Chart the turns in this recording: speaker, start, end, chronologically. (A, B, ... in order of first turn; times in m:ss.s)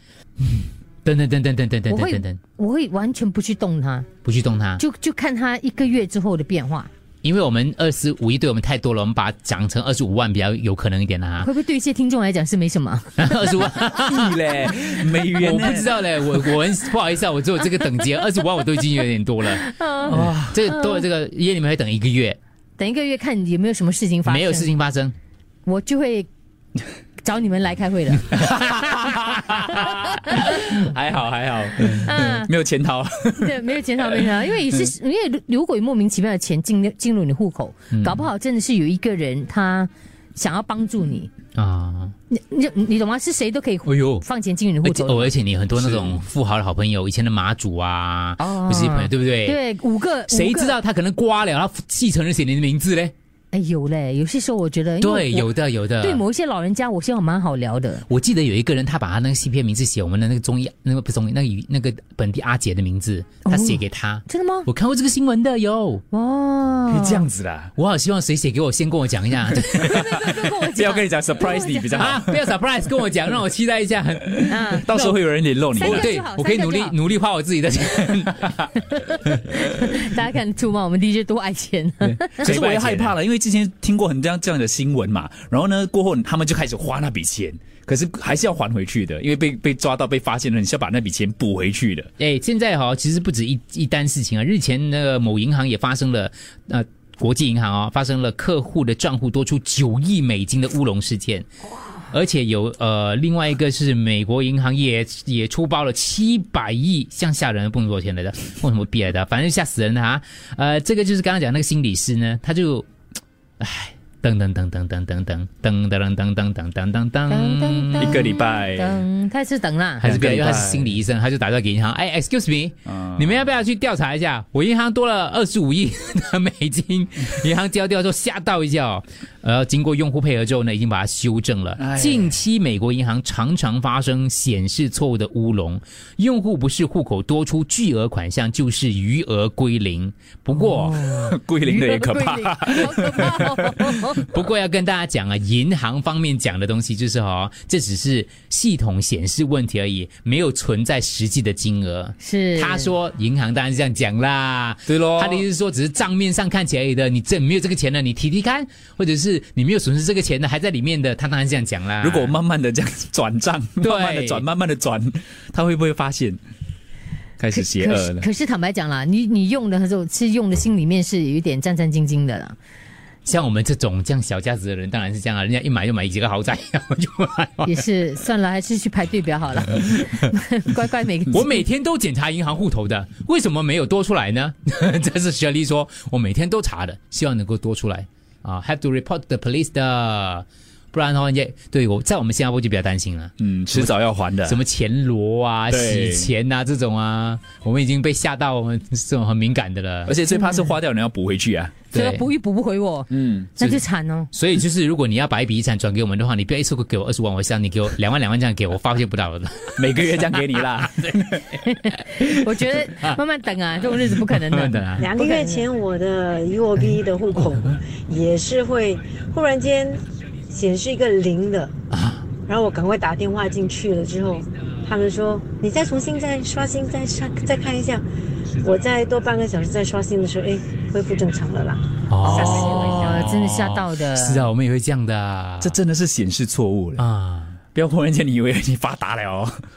0:00.4-0:02.4 A
0:01.9-0:04.1 B
0:04.2-0:04.8 A
0:04.8-0:06.9 B
0:07.2-0:11.5 A
0:11.4-0:13.3 B
0:13.2-0:22.4 A
0:14.0-0:16.2 C
0:19.6-0:20.3 B
0:20.1-0:20.7 C
0:22.8-0:24.7 B
0:24.2-0:25.1 A
0:25.6-0:26.3 B
0:27.2-0:28.4 B
0:28.3-0:30.4 A
0:28.4-0:34.9 C
0:31.9-0:32.5 B
0:33.4-0:41.3 B
0:37.9-0:38.2 A
0:41.6-0:42.1 A
0:42.3-0:45.3 B
0:43.8-0:44.2 A
0:44.8-0:49.6 A
0:45.8-0:46.2 C
0:48.4-0:50.8 B
0:50.3-0:53.1 A
0:53.5-0:58.0 B
0:55.0-0:56.2 A
0:58.1-1:06.0 A
1:03.4-1:04.7 B
1:06.1-1:07.2 B
1:06.9-1:07.7 C
1:07.8-1:10.1 A
1:09.7-1:12.2 B
1:10.1-1:12.4 C
1:12.0-1:14.8 A
1:14.5-1:15.2 B
1:14.8-1:16.1 C
1:15.7-1:16.9 B
1:15.8-1:18.7 A
1:19.2-1:22.5 B
1:22.0-1:32.1 C
1:22.4-1:23.1 A
1:32.2-1:41.4 A
1:42.1-1:52.9 A
1:53.6-1:58.3 A
1:57.3-2:00.0 B
1:58.0-1:59.0 C
2:00.0-2:21.2 A
2:00.0-2:00.9 C
2:02.9-2:03.2 C
2:11.8-2:12.4 C
2:20.8-2:24.2 B
2:21.0-2:24.0 C
2:24.1-2:42.4 A
2:32.2-2:32.9 B
2:34.9-2:35.4 C
2:42.0-2:46.4 C
2:43.8-2:44.4 A
2:47.4-2:48.3 C
2:47.5-2:52.6 B
2:53.2-2:57.7 A
2:57.6-3:01.6 B
3:01.3-3:13.9 A
3:13.4-3:14.6 C
3:14.5-3:20.1 A
3:15.7-3:16.3 C
3:20.1-3:21.8 C
3:21.9-3:22.3 A
3:21.9-3:24.3 B
3:23.1-3:23.5 C
3:23.6-3:31.4 A
3:29.8-3:31.6 C
3:31.6-3:35.6 B
3:31.9-3:33.1 A
3:34.1-3:35.1 A
3:35.0-3:41.7 D
3:41.9-3:42.2 A
3:42.4-3:48.0 D
3:48.6-3:53.3 D
3:52.1-3:55.8 A
3:52.2-3:54.5 B
3:55.6-3:57.0 C
3:57.0-3:57.6 A
3:57.7-3:59.6 C